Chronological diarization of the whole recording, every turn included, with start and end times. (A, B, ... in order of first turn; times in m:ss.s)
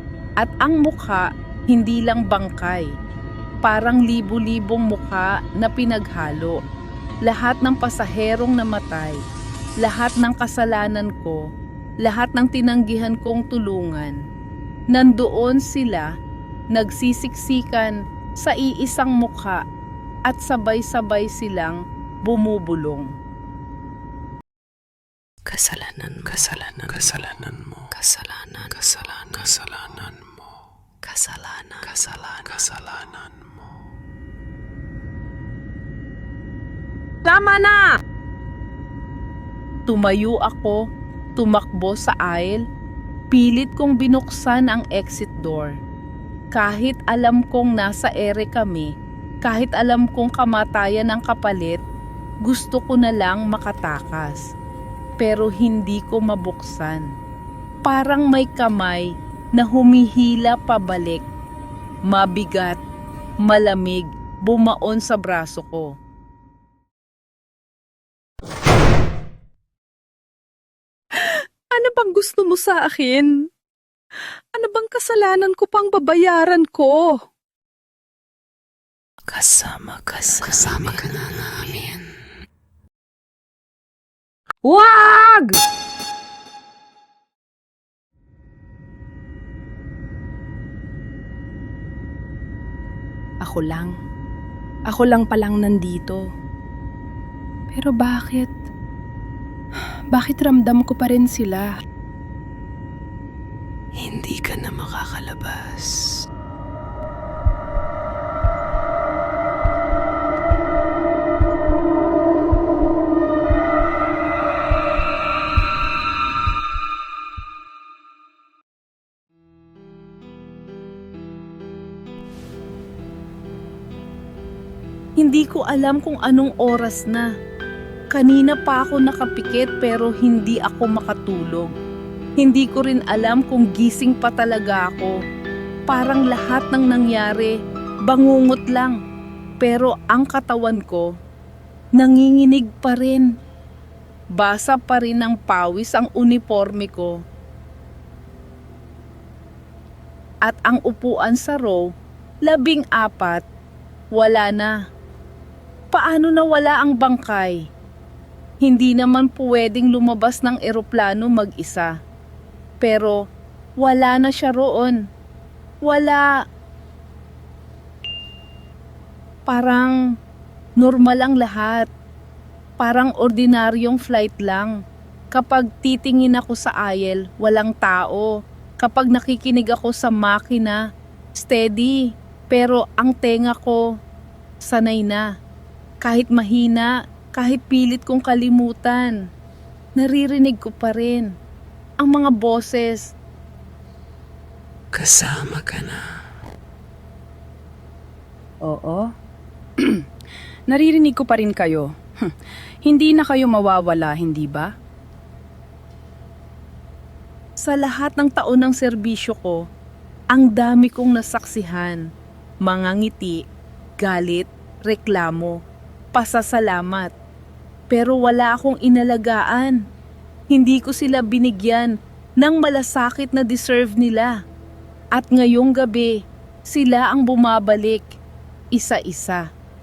0:00.4-0:02.9 A
0:03.6-0:06.6 A
0:07.3-0:09.2 A
0:09.8-0:11.4 A
0:12.0-0:14.2 A
0:14.9-0:16.1 A
0:16.7-0:19.6 A
0:20.3-0:23.1 A
0:25.5-0:30.4 B
0:31.0-0:33.4 B
0:39.9-0:40.8 A
0:41.4-0:42.6 A
0:43.3-0:45.8 A
0:46.5-0:48.9 A
0:49.4-0:51.8 A
0:52.4-0:54.4 A
0:55.2-0:57.1 A
0:57.9-1:01.2 A
1:02.1-1:02.8 A
1:03.5-1:05.9 A
1:11.1-1:13.5 C
1:14.5-1:17.2 C
1:19.3-1:22.1 B
1:24.6-1:25.6 C
1:33.4-1:33.9 C
1:34.9-1:36.2 C
1:37.7-1:38.6 C
1:40.1-1:41.8 C
1:44.0-1:46.2 B
2:05.2-2:07.3 A
2:08.1-2:11.7 A
2:12.4-2:15.1 A
2:15.9-2:17.6 A
2:18.1-2:19.0 A
2:19.6-2:21.1 A
2:22.0-2:23.3 A
2:24.4-2:27.2 A
2:30.5-2:31.8 A
2:32.5-2:33.4 A
2:34.1-2:34.8 A
2:35.9-2:37.6 A
2:38.6-2:41.9 A
2:42.8-2:43.2 A
2:43.8-2:45.0 A
2:45.9-2:46.2 A
2:49.5-2:49.9 A
2:50.8-2:51.9 A
2:52.8-2:54.7 A
2:55.3-2:58.3 A
2:58.8-3:00.8 A
3:01.4-3:02.0 A
3:02.5-3:03.8 A
3:04.6-3:05.2 A
3:06.0-3:09.2 A
3:10.0-3:11.3 A
3:12.0-3:13.0 A
3:14.9-3:16.1 B
3:18.6-3:19.1 C
3:19.8-3:20.0 C
3:20.7-3:22.3 C
3:22.8-3:24.7 C
3:27.6-3:29.6 A
3:30.3-3:32.0 A
3:32.6-3:33.4 A
3:34.0-3:35.6 A
3:36.1-3:37.1 A
3:37.9-3:39.8 A
3:40.5-3:44.3 A
3:45.2-3:46.1 A
3:46.7-3:48.0 A
3:48.8-3:49.4 A